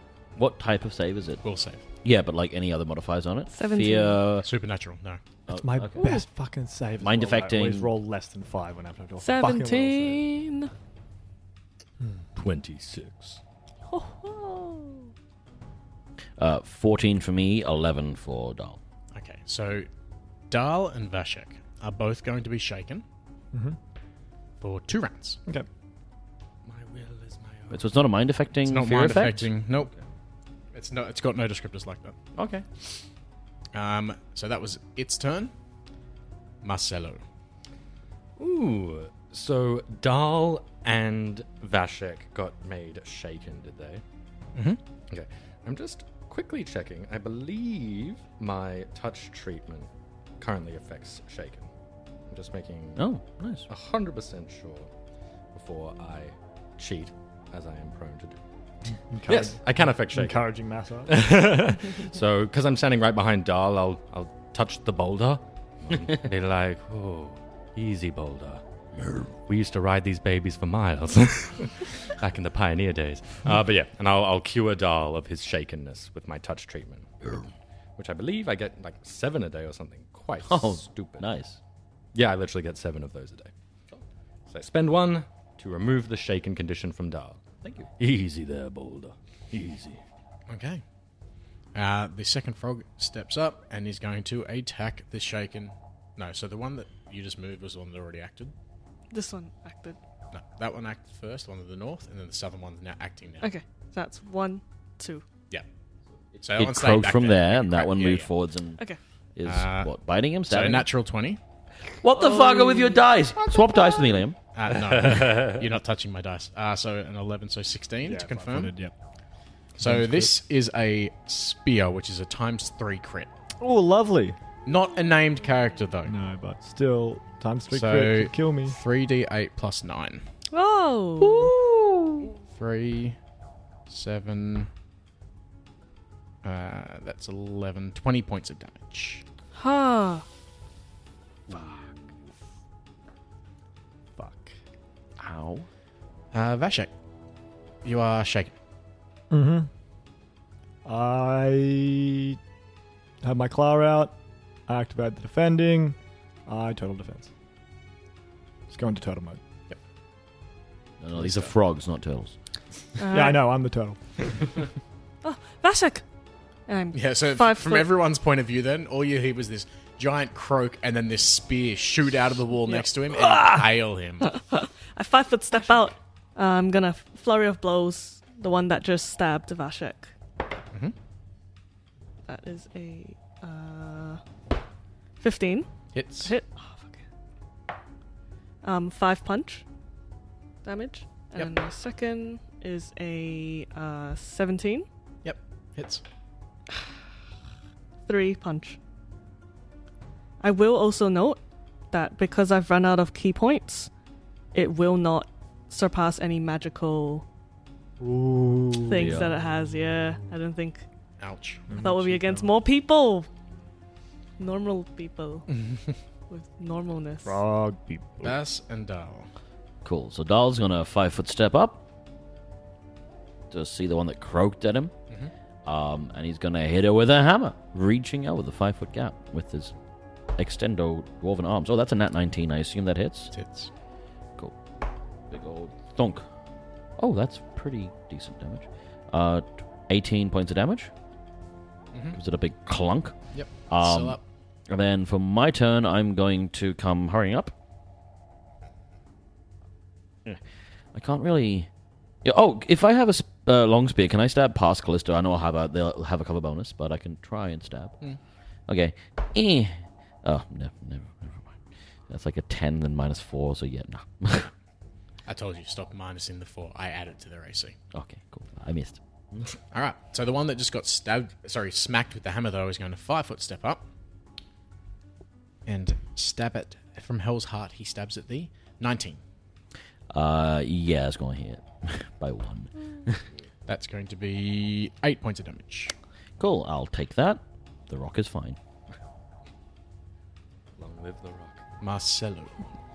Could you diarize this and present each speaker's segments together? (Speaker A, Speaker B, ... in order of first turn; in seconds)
Speaker A: 0.3-1.4, 2.0-4.5, 5.5-6.2, 7.0-7.9, 16.4-18.8, 27.7-29.5, 32.4-32.6, 53.0-53.7, 80.4-81.6, 87.6-87.9, 106.3-108.8, 109.3-110.8, 112.0-114.4, 145.2-145.7, 161.0-162.3, 173.1-173.6, 208.9-209.3, 219.8-221.8, 223.5-224.9, 225.7-229.7, 230.3-233.3, 235.3-236.3, 237.0-240.9, 242.1-247.5, 250.9-251.7, 252.2-258.0, 258.7-261.6, 262.1-264.5, 267.9-269.5, 280.1-283.2, 286.4-288.6
Speaker B: 1.4-1.8, 4.4-5.2, 19.1-19.9, 20.5-23.0, 24.6-25.4, 28.6-29.9, 30.7-32.1, 33.7-35.5, 36.6-37.2, 90.5-90.8, 91.7-98.5, 100.3-103.5, 106.4-108.3, 109.4-109.9, 110.5-111.4, 114.5-118.7, 119.8-123.3, 124.7-126.1, 127.7-130.2, 132.5-133.2, 133.9-134.7, 136.4-139.2, 146.3-146.9, 147.8-148.5, 166.9-174.4, 185.9-186.3, 195.2-196.0, 211.2-211.7, 215.5-215.9, 218.2-219.3, 233.3-233.7, 241.9-242.2, 243.3-244.2, 265.3-267.8, 269.7-273.8, 275.6-279.2, 283.7-285.9, 291.8-292.6
Speaker C: 3.5-4.2, 9.2-10.7, 13.9-15.1, 99.1-100.0, 103.4-105.2, 112.2-113.0, 130.5-131.5, 139.5-140.2, 163.0-163.5, 165.2-166.0, 166.7-167.9, 174.2-180.1, 182.3-184.2, 185.2-185.7, 186.2-187.0, 188.6-189.6, 190.6-194.8, 198.0-198.8, 200.4-201.4, 201.9-203.9, 204.5-207.2, 208.8-210.8, 211.7-213.3, 214.4-215.5, 216.3-217.4
Speaker D: 5.5-10.2, 23.5-23.8, 59.1-61.2, 118.0-118.9, 119.8-120.3, 123.6-124.4, 126.0-128.8, 144.2-144.5, 149.3-149.7, 150.8-152.4, 153.2-154.2, 154.7-157.3, 158.7-159.4, 163.1-164.6, 208.0-210.3, 211.7-212.5, 217.2-218.4
Speaker E: 12.3-13.4, 26.6-27.9, 38.4-44.0, 45.1-51.7, 52.3-53.0, 53.7-54.9, 55.5-58.4, 59.2-60.5, 61.0-68.6, 69.4-77.4, 78.0-81.2, 82.1-83.5, 84.5-90.0, 114.7-115.7, 131.4-131.9, 290.8-291.6